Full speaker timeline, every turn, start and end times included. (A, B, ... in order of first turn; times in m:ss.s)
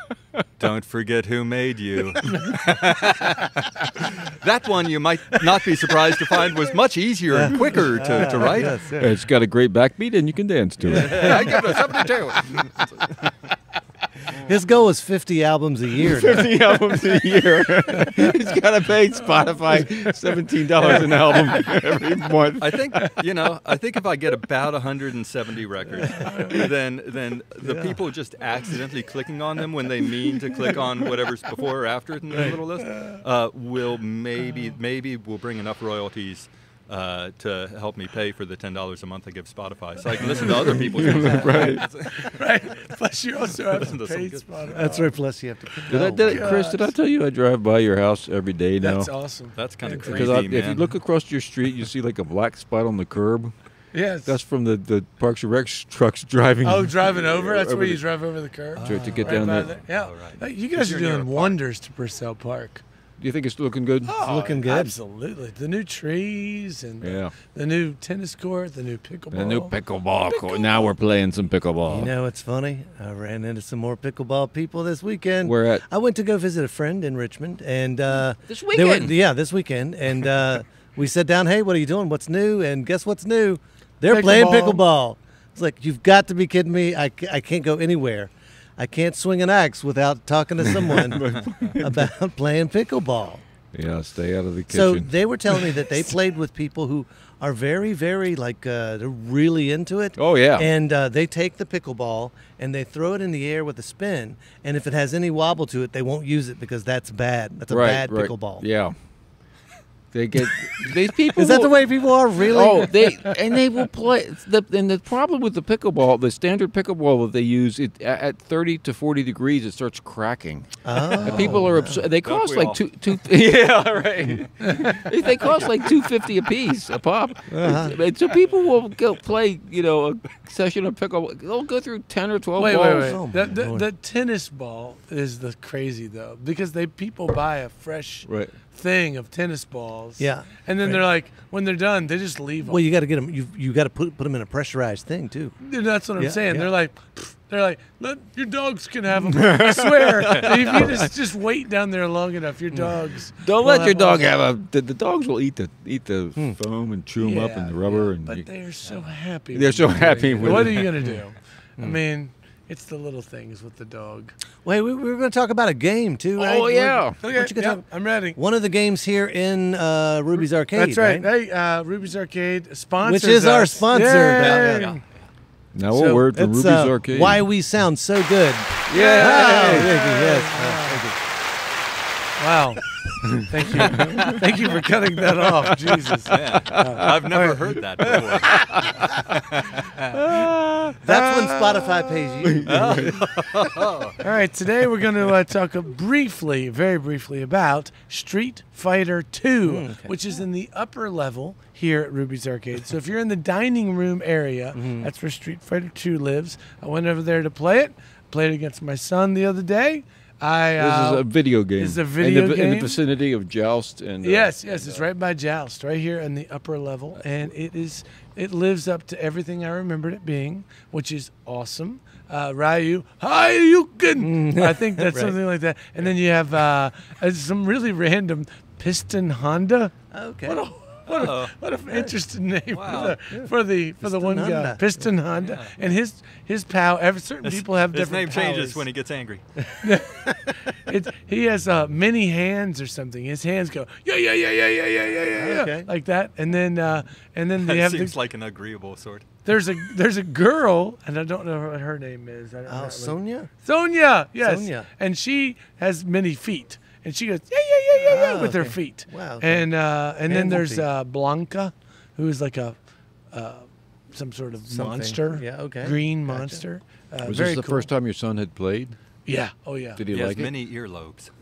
0:00.6-0:08.8 A
0:06.1-0:06.5 B
0:07.3-0:09.2 B
0:08.2-0:12.7 C
0:10.9-0:13.2 A
0:10.9-0:11.7 B
0:14.3-0:16.5 B
0:16.0-0:22.8 C
0:20.9-0:21.3 D
0:22.6-0:42.4 A
0:26.1-0:26.7 D
0:27.6-0:28.0 B
0:40.5-0:41.9 C
0:40.8-0:41.8 B
0:41.6-0:45.1 D
0:43.7-0:44.6 A
0:44.7-0:46.6 B
0:45.9-0:49.1 C
0:46.2-0:46.9 D
0:48.8-0:50.5 D
0:49.6-0:50.9 A
0:49.9-0:53.5 C
0:53.9-0:54.4 D
0:54.3-0:58.0 C
0:56.6-1:02.8 D
0:58.8-1:01.6 A
0:58.8-0:59.7 C
1:03.2-1:04.2 C
1:04.0-1:09.8 D
1:04.2-1:05.0 B
1:07.0-1:07.3 C
1:09.3-1:12.1 C
1:10.3-1:10.9 D
1:11.9-1:33.4 B
1:15.4-1:15.8 C
1:18.5-1:19.2 C
1:24.1-1:24.8 D
1:30.6-1:32.1 C
1:31.3-1:31.7 A
1:33.7-1:36.0 C
1:34.7-1:48.6 B
1:40.2-1:40.7 C
1:47.7-1:49.0 C
1:50.1-1:51.9 C
1:51.3-1:53.0 B
1:52.4-2:13.2 C
2:00.8-2:02.0 B
2:01.2-2:02.8 A
2:04.6-2:05.0 D
2:07.5-2:08.0 B
2:12.6-2:22.8 D
2:12.9-2:13.9 B
2:18.2-2:18.5 C
2:20.2-2:21.0 B
2:22.6-2:25.6 B
2:25.6-2:34.3 D
2:26.2-2:26.7 B
2:29.3-2:31.1 C
2:33.4-2:38.5 C
2:37.2-2:44.4 D
2:39.5-2:40.9 C
2:44.6-2:51.3 B
2:46.4-2:47.2 C
2:47.2-2:48.4 D
2:50.7-2:55.0 D
2:53.0-2:54.9 B
2:54.4-2:55.2 A
2:55.7-2:57.4 C
2:55.9-2:56.3 D
2:56.3-3:01.2 B
2:58.9-2:59.9 C
2:58.9-3:01.0 D
3:02.4-3:07.1 D
3:03.8-3:04.3 C
3:05.9-3:07.1 C
3:06.3-3:08.9 A
3:07.3-3:08.2 B
3:08.5-3:09.0 C
3:09.5-3:10.2 A
3:10.1-3:11.0 C
3:11.0-3:13.3 B
3:11.1-3:12.2 D
3:12.4-3:13.2 C
3:12.6-3:14.2 A
3:14.2-3:31.2 D
3:19.6-3:20.1 B
3:24.8-3:25.1 B
3:30.8-3:35.1 C
3:31.8-3:33.0 D
3:34.2-3:58.8 D
3:44.2-3:45.4 B
3:50.1-3:50.6 B
3:51.1-3:51.5 A
3:52.7-3:53.2 A
3:52.9-3:55.0 B
3:55.4-3:55.8 A
3:57.4-3:59.4 A
3:59.8-4:08.1 D
4:05.4-4:05.9 B
4:07.6-4:09.3 A
4:09.4-4:22.8 D
4:12.7-4:13.5 B
4:14.4-4:14.9 B
4:18.0-4:19.7 B
4:20.2-4:20.8 B
4:23.3-4:27.9 D
4:24.7-4:26.6 B
4:27.2-4:29.0 C
4:29.3-4:30.0 D
4:30.0-4:30.5 C
4:30.1-4:31.3 A